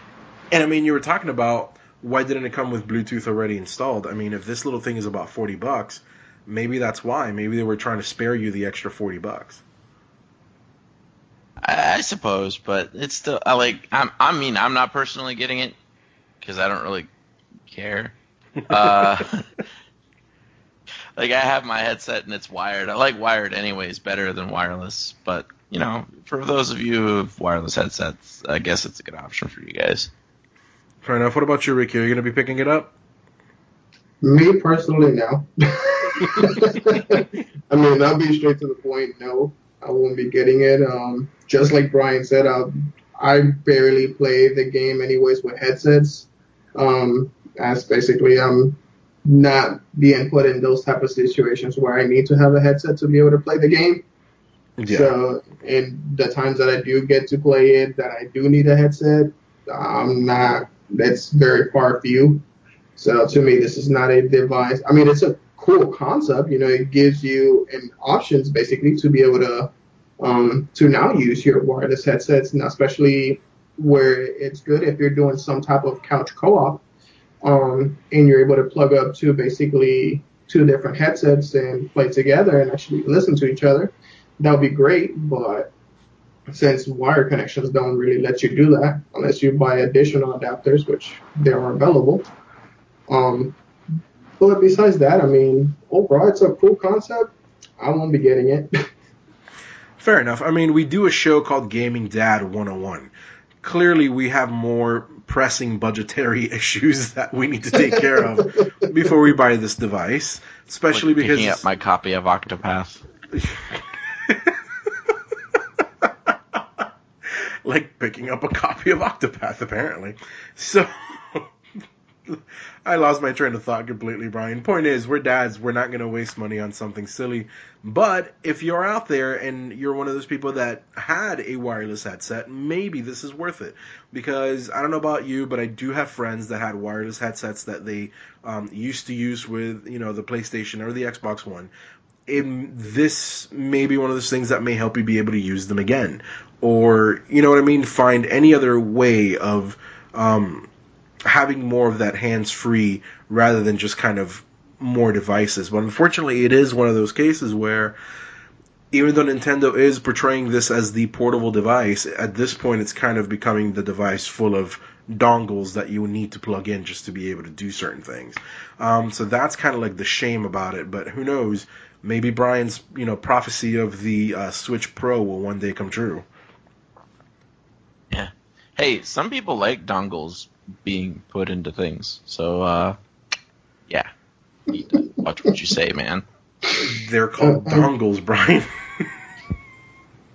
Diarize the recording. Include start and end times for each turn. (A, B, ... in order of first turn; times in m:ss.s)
0:00.5-0:09.6 A
0:11.6-0:15.7 B
0:16.4-0:17.1 B
0:17.7-0:18.1 B
0:18.7-0:19.4 B
0:21.2-0:30.1 B
0:31.0-0:32.9 A
0:34.2-0:54.0 C
0:54.8-0:55.1 A
0:54.9-1:02.4 C
1:03.0-1:16.8 C
1:17.4-1:25.7 C
1:26.5-1:32.3 C
1:33.1-1:33.6 C
1:34.4-1:38.7 C
1:40.0-1:43.1 A
1:43.6-1:51.6 A
1:47.9-1:48.6 C
1:50.9-1:53.0 B
1:53.3-1:55.1 A
1:56.0-2:01.5 A
2:02.3-2:21.7 A
2:22.3-2:30.7 A
2:31.3-2:38.0 A
2:38.9-2:56.2 A
2:58.1-3:03.0 B
3:04.7-3:06.2 B
3:06.7-3:09.1 A
3:07.4-3:07.9 C